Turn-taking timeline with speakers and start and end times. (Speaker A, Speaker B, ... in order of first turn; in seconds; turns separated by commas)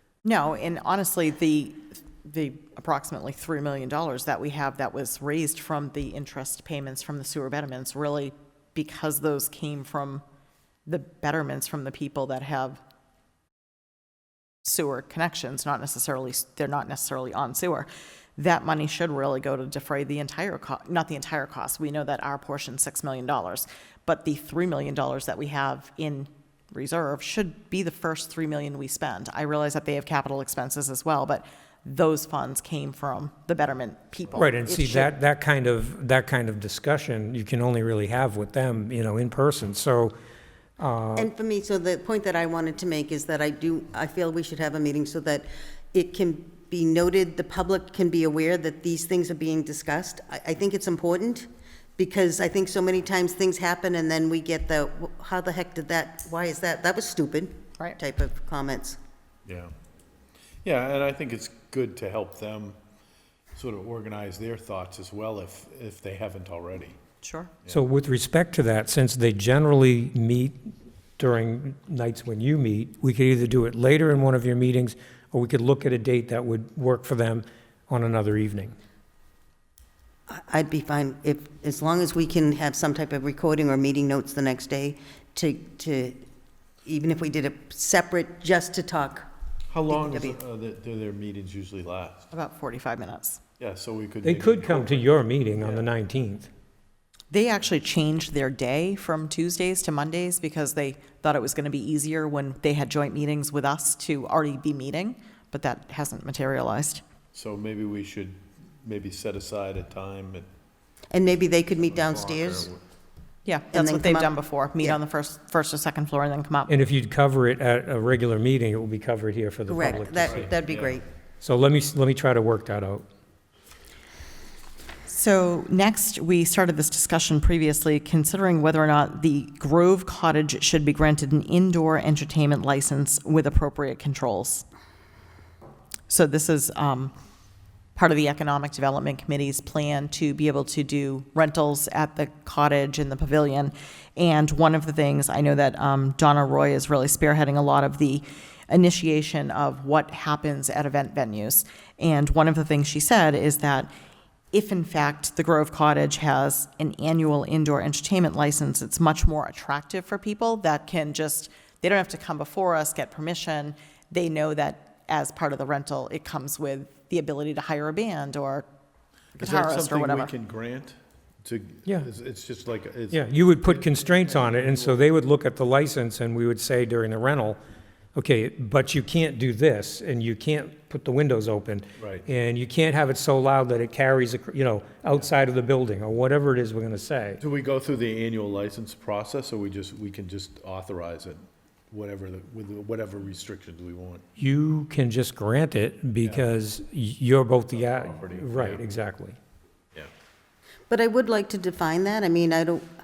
Speaker A: 0.2-10.2, Speaker A: 10.9-12.8, Speaker A: 14.6-34.5, Speaker B: 34.4-40.1, Speaker C: 34.6-35.1, Speaker B: 40.8-41.3, Speaker C: 41.2-59.0, Speaker D: 59.5-59.7, Speaker D: 60.6-62.8, Speaker D: 63.5-67.0, Speaker A: 67.2-67.5, Speaker B: 67.7-70.6, Speaker B: 71.2-78.8, Speaker C: 80.3-86.2, Speaker C: 86.9-89.3, Speaker D: 89.7-92.3, Speaker C: 89.9-90.4, Speaker A: 92.3-93.4, Speaker D: 93.6-95.9, Speaker B: 94.2-96.5, Speaker A: 97.3-107.0, Speaker D: 107.3-110.5, Speaker C: 111.1-112.7, Speaker D: 111.8-112.8, Speaker A: 113.5-116.7, Speaker C: 113.7-115.0, Speaker B: 116.7-120.5, Speaker C: 119.7-121.0, Speaker D: 120.3-121.0, Speaker B: 121.4-123.1, Speaker A: 125.1-134.7, Speaker A: 136.1-137.1, Speaker A: 138.0-153.9, Speaker A: 154.5-168.7, Speaker A: 169.4-170.3, Speaker D: 169.4-175.0, Speaker B: 173.1-177.6, Speaker B: 178.2-187.4, Speaker D: 182.0-182.2, Speaker D: 187.4-194.2, Speaker B: 194.4-199.4, Speaker D: 197.8-198.8, Speaker C: 200.9-202.9